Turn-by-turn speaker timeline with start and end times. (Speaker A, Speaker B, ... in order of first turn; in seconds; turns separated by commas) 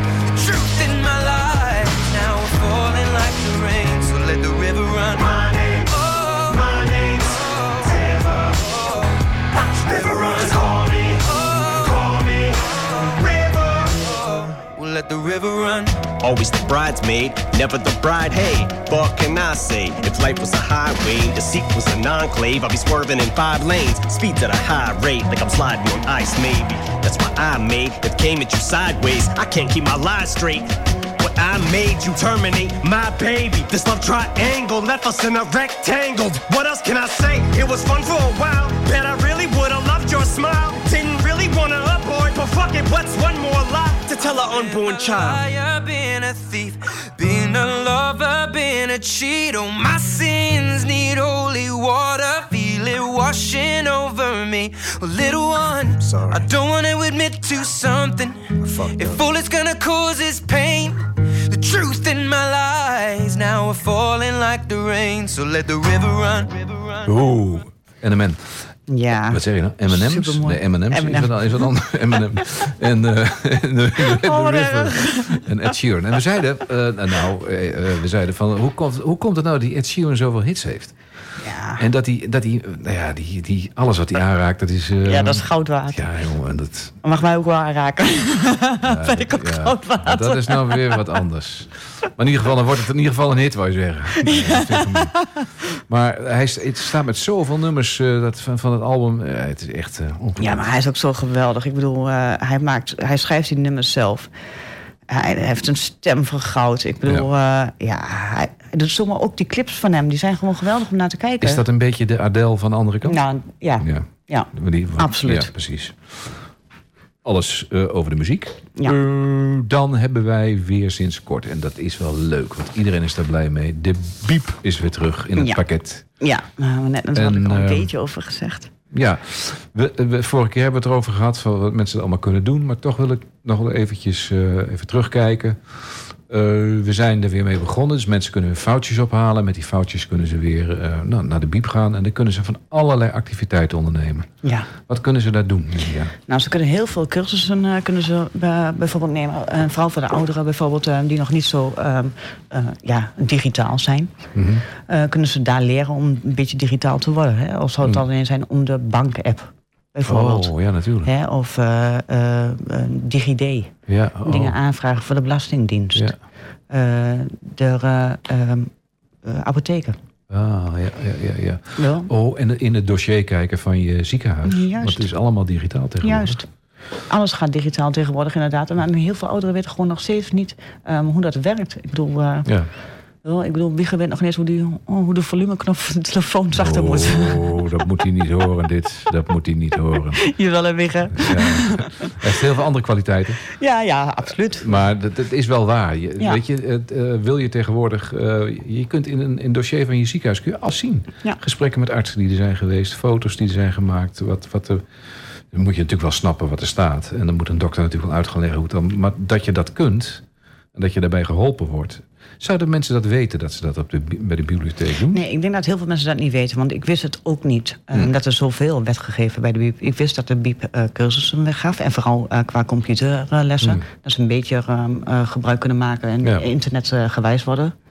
Speaker A: 0.3-9.1, Speaker B: 9.6-11.2, Speaker A: 9.9-16.1, Speaker B: 16.2-45.4, Speaker A: 44.2-67.5, Speaker C: 67.0-68.4, Speaker D: 68.9-71.6, Speaker C: 69.3-81.0, Speaker D: 74.0-75.5, Speaker D: 81.4-81.8, Speaker C: 81.8-87.0, Speaker D: 85.0-86.0, Speaker D: 87.0-91.0, Speaker C: 88.8-100.7, Speaker D: 94.2-95.3, Speaker D: 100.4-104.3, Speaker D: 105.1-111.6, Speaker C: 111.4-113.2, Speaker D: 113.0-115.5, Speaker C: 113.8-116.4, Speaker C: 117.2-126.0, Speaker D: 126.2-128.7, Speaker C: 127.2-127.9, Speaker C: 128.9-144.3, Speaker D: 144.4-144.7, Speaker C: 144.8-146.1, Speaker D: 146.3-154.1, Speaker C: 154.3-154.6, Speaker D: 154.8-166.1, Speaker C: 160.1-161.1, Speaker C: 163.9-164.6, Speaker D: 166.7-168.7, Speaker D: 169.2-170.0, Speaker C: 170.3-176.4, Speaker D: 171.8-172.1, Speaker D: 174.5-175.1, Speaker D: 176.0-176.4, Speaker D: 177.1-182.5, Speaker D: 183.2-187.8, Speaker C: 186.5-190.3, Speaker D: 190.2-192.1, Speaker C: 191.2-193.4, Speaker D: 193.6-194.8, Speaker C: 194.6-204.8, Speaker C: 205.5-215.2, Speaker D: 215.1-227.7